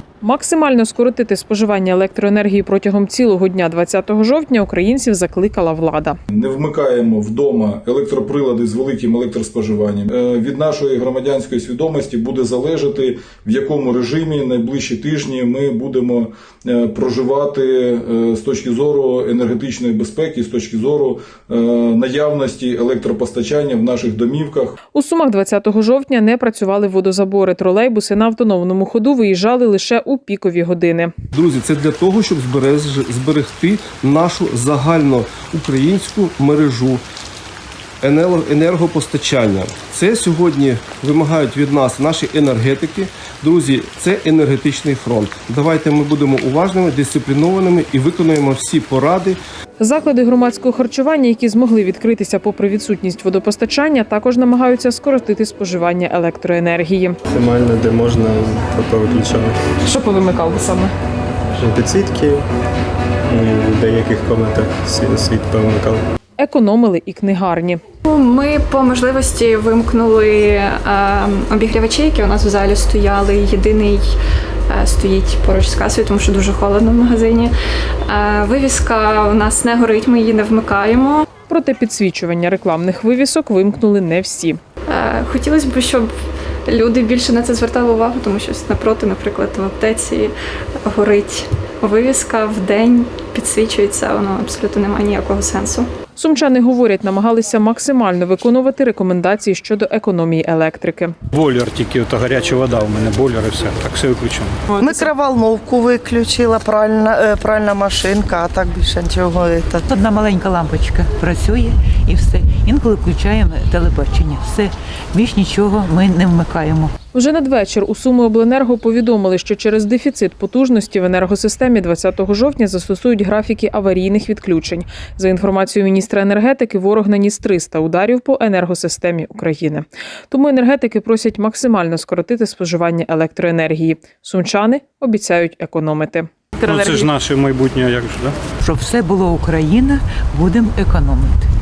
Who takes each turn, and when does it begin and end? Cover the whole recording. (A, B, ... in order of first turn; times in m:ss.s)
0:00.2-0:06.2 A
0:06.3-0:24.8 B
0:24.9-0:31.1 A
0:31.3-0:37.0 C
0:38.0-0:49.4 C
0:49.8-0:57.2 A
0:57.3-0:59.6 D
0:59.9-1:00.8 A
1:01.6-1:02.5 D
1:03.3-1:06.0 D
1:06.4-1:07.8 A
1:08.1-1:14.1 E
1:14.7-1:17.5 E
1:18.1-1:21.2 E
1:21.5-1:24.6 A
1:24.9-1:26.1 E
1:26.7-1:30.3 E
1:30.8-1:35.9 E
1:36.2-1:41.2 A
1:41.3-1:44.6 F
1:44.8-1:49.8 G
1:49.8-1:56.9 H
1:57.1-2:17.1 A
2:16.7-2:18.4 F
2:18.6-2:21.4 H